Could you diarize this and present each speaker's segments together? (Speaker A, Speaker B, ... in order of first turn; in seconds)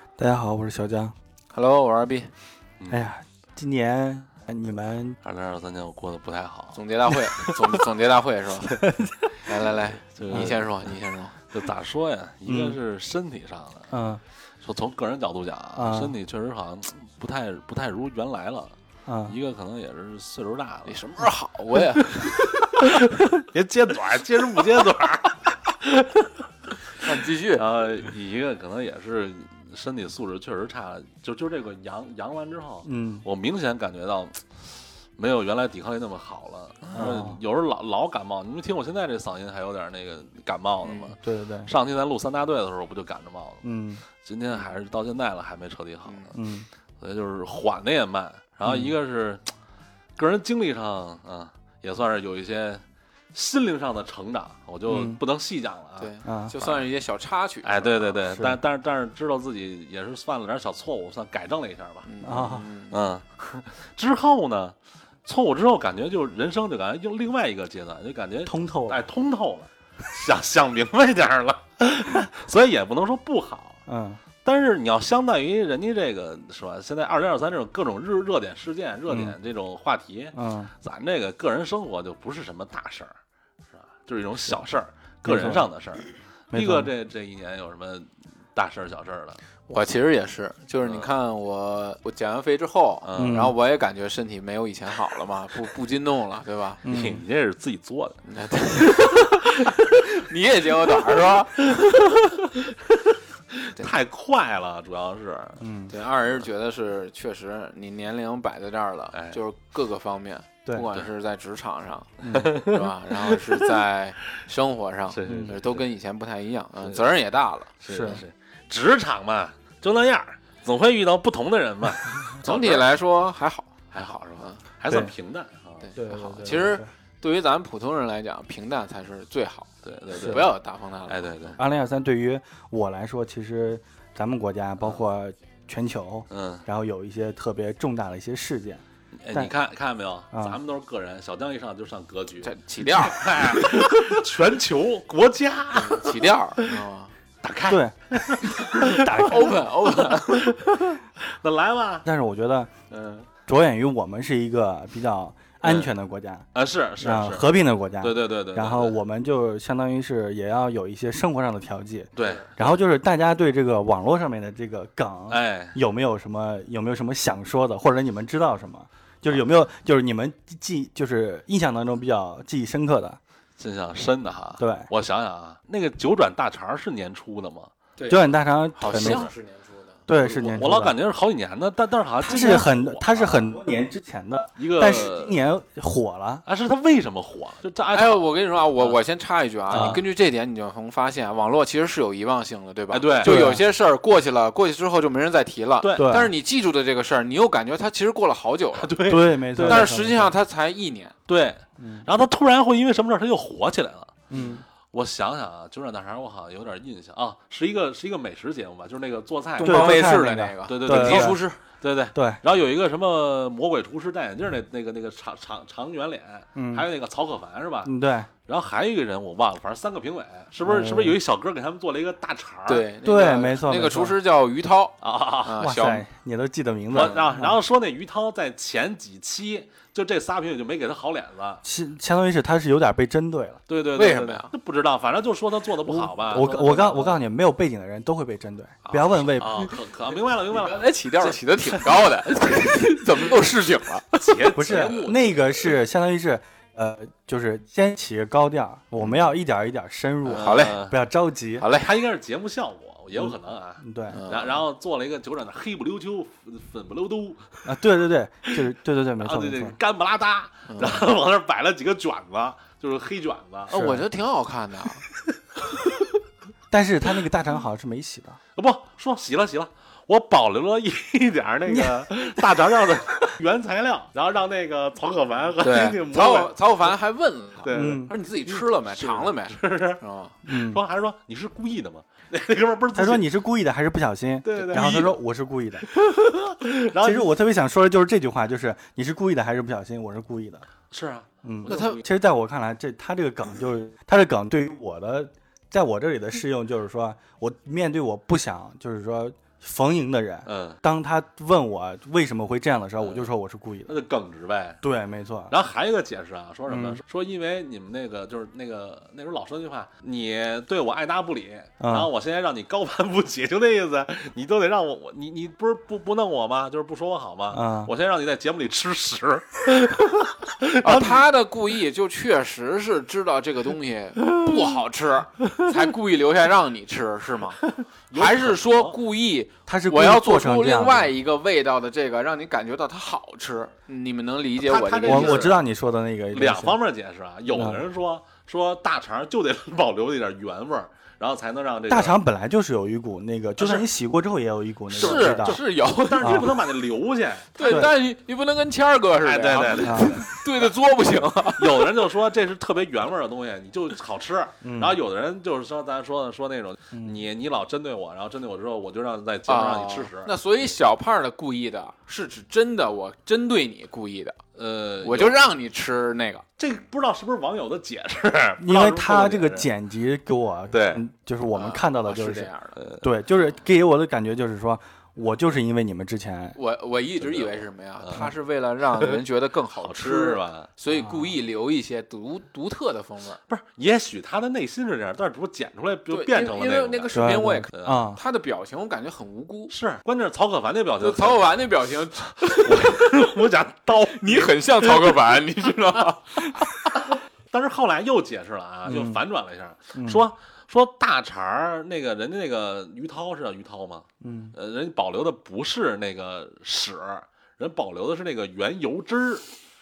Speaker A: 0.2-1.1, 2.9-5.2, 8.7-9.1, 10.3-10.6, 12.5-12.8, 13.9-14.2, 15.8-16.1, 19.1-19.4, 32.8-33.2, 36.9-37.4, 41.2-41.7, 43.6-44.0, 46.3-46.7, 48.6-48.9, 54.9-55.2, 56.2-56.5, 58.3-58.6, 62.2-62.7, 68.5-69.0, 73.9-74.2, 79.1-79.3, 80.3-80.7, 85.2-85.7, 86.5-86.9, 93.2-93.5, 96.8-97.2, 105.6-105.9, 112.2-112.5, 115.3-115.6, 117.9-118.2, 124.9-125.1, 126.0-126.9, 130.2-130.4, 131.6-139.5, 140.3-140.6, 147.7-149.6, 152.0-152.7, 153.5-156.5, 157.0-173.2, 174.6-174.9, 178.1-179.3, 180.1-180.9, 182.2-186.4, 189.7-190.0, 193.2-193.6, 195.9-196.3, 199.0-200.3, 201.8-202.1, 204.3-204.6, 209.6-211.4, 212.1-212.4, 216.6-216.9, 217.8-218.3, 220.6-221.2, 223.0-224.2, 225.6-227.6, 231.6-233.6, 235.8-239.7, 244.5-251.7, 253.1-254.2, 257.6-259.8, 263.7-264.0, 266.7-268.4, 271.7-272.1, 277.7-278.1, 280.4-280.8, 282.9-285.9, 287.0-290.6, 291.4-304.0, 304.8-305.5, 306.7-307.0, 311.8-312.1, 317.5-317.9, 329.7-331.1, 335.0-336.8, 337.5-337.8, 341.9-345.6, 346.2-346.6, 347.7-347.9, 349.8-350.2, 354.6-355.0, 356.9-357.2, 368.6-376.6, 380.9-381.4, 387.1-388.2, 398.9-399.2, 399.9-400.2, 404.2-404.5
Speaker B: 1.5-2.3, 6.7-8.8, 9.4-11.3, 20.9-22.7, 27.0-27.6, 40.8-41.1, 56.0-58.2, 62.0-63.0, 89.7-96.8, 98.2-102.1, 105.9-117.7, 122.4-123.7, 125.8-131.6, 142.4-143.8, 145.7-147.1, 149.2-150.5, 152.9-153.2, 178.0-180.0, 187.9-198.9, 199.6-201.1, 209.6-211.6, 222.7-226.0, 233.9-234.5, 240.5-244.4, 250.3-250.8, 251.6-251.9, 254.1-254.6, 260.7-261.0, 263.7-265.0, 275.6-280.3, 291.7-291.9, 320.8-327.6, 328.1-335.5, 344.9-346.5, 347.5-351.9, 359.5-364.4, 365.0-366.4, 371.5-372.8, 376.6-383.4, 386.1-389.7, 391.0-393.2, 394.1-396.9
Speaker C: 5.2-6.8, 9.7-10.9, 11.5-13.9, 14.6-18.7, 19.2-21.0, 22.5-26.3, 27.5-34.6, 35.2-43.6, 44.2-46.4, 47.0-49.4, 50.2-52.8, 53.3-56.8, 57.6-62.1, 62.9-64.7, 65.2-73.8, 74.4-83.1, 83.7-89.4, 90.8-91.1, 93.0-93.5, 96.9-98.2, 101.8-105.6, 109.1-109.4, 112.3-113.6, 115.1-115.8, 116.8-117.1, 117.8-122.8, 123.9-125.9, 129.8-130.5, 131.1-131.6, 136.3-136.6, 139.2-146.8, 147.4-152.0, 155.6-155.9, 156.5-158.9, 162.2-162.8, 165.3-165.8, 173.6-177.7, 178.9-179.3, 180.2-183.5, 184.6-185.4, 186.4-188.2, 189.7-190.0, 192.9-193.5, 195.8-196.2, 198.7-200.0, 201.3-204.2, 204.9-217.9, 218.5-222.8, 225.0-225.6, 226.9-231.6, 233.7-237.2, 238.8-242.1, 244.2-245.7, 250.3-250.9, 251.7-257.4, 259.2-263.9, 268.6-276.9, 277.6-283.3, 284.4-285.2, 285.9-287.3, 290.9-292.1, 300.4-300.8, 303.0-303.3, 303.9-304.8, 305.5-321.2, 327.8-329.0, 334.6-335.6, 336.3-342.2, 343.6-343.9, 344.9-347.9, 349.2-350.7, 351.6-360.3, 364.6-365.5, 366.6-369.7, 370.7-371.0, 372.8-373.0, 377.2-378.3, 379.8-380.7, 383.5-388.0, 389.7-391.6, 392.4-395.2, 397.5-409.4